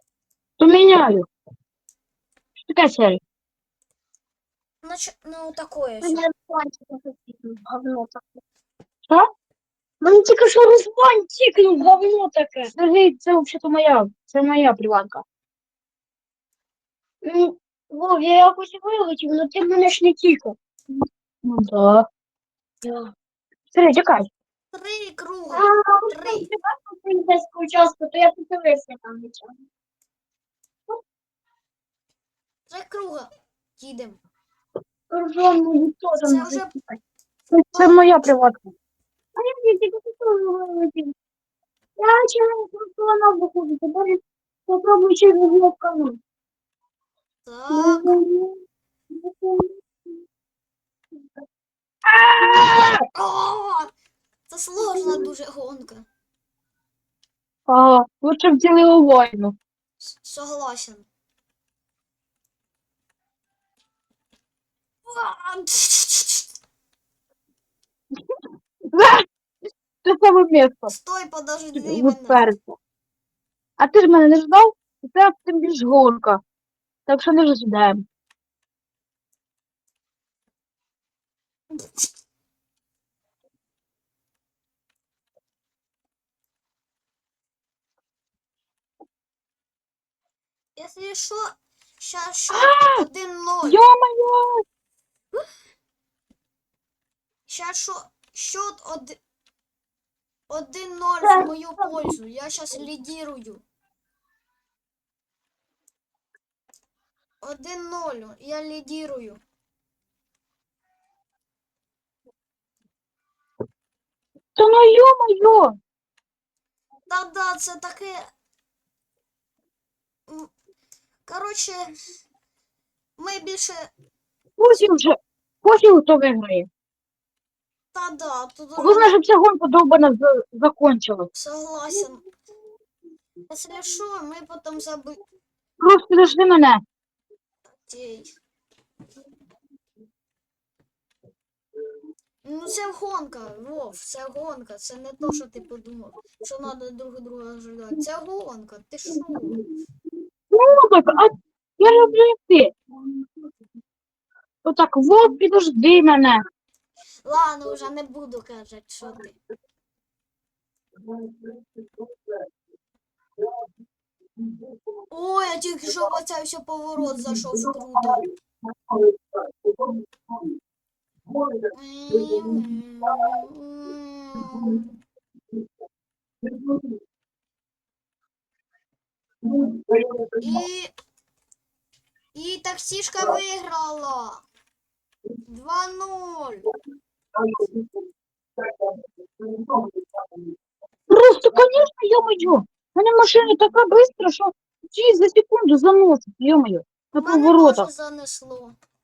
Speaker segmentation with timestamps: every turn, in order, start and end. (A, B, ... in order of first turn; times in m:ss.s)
0:00.6-0:01.3 A
0:02.6-0:03.2 A
0:04.8-0:06.2 B
0:06.0-0:08.4 C
0:10.0-0:12.7 C
0:12.7-0:15.2 A
0:17.2-0:20.6 C
0:21.4-0:22.1 A
0:22.8-0:23.1 C
0:23.7-0:24.3 A
0:24.7-0:26.5 B
0:25.5-0:29.6 C
0:32.7-0:34.2 B
0:35.1-0:37.0 C
0:36.2-0:36.7 B
0:37.5-0:38.7 A
0:37.7-0:38.1 B
0:39.4-0:41.1 C
0:42.0-0:46.2 C
0:47.4-0:48.2 B
0:47.7-0:48.6 C
0:49.2-0:49.8 C
0:52.0-0:53.0 A
0:53.0-0:53.9 B
0:54.5-0:56.1 B
0:57.7-0:59.6 A
1:00.0-1:01.1 B
1:05.0-1:06.6 B
1:08.8-1:09.3 A
1:10.0-1:10.9 A
1:10.9-1:12.4 B
1:11.8-1:12.8 A
1:13.8-1:16.4 A
1:17.1-1:18.0 A
1:21.7-1:22.1 B
1:30.8-1:33.8 B
1:32.5-1:33.1 A
1:33.6-1:34.6 A
1:37.5-1:39.2 B
1:40.5-1:43.6 B
1:41.2-1:41.9 C
1:47.4-1:49.4 B
1:54.6-1:55.8 A
1:57.1-1:58.3 B
2:01.3-2:02.0 B
2:03.2-2:03.9 B
2:04.6-2:06.7 A
2:07.9-2:09.2 B
2:08.8-2:11.3 A
2:11.3-2:12.2 B
2:13.5-2:15.2 B
2:15.8-2:16.8 A
2:17.8-2:18.4 B
2:22.4-2:29.7 B
2:30.5-2:32.7 A
2:34.6-2:36.4 A
2:37.2-2:39.4 B
2:45.1-2:48.3 B
2:51.7-2:54.9 B
3:00.4-3:00.9 B
3:02.3-3:04.4 B
3:05.5-3:06.6 B
3:11.1-3:17.9 A
3:17.2-3:18.8 B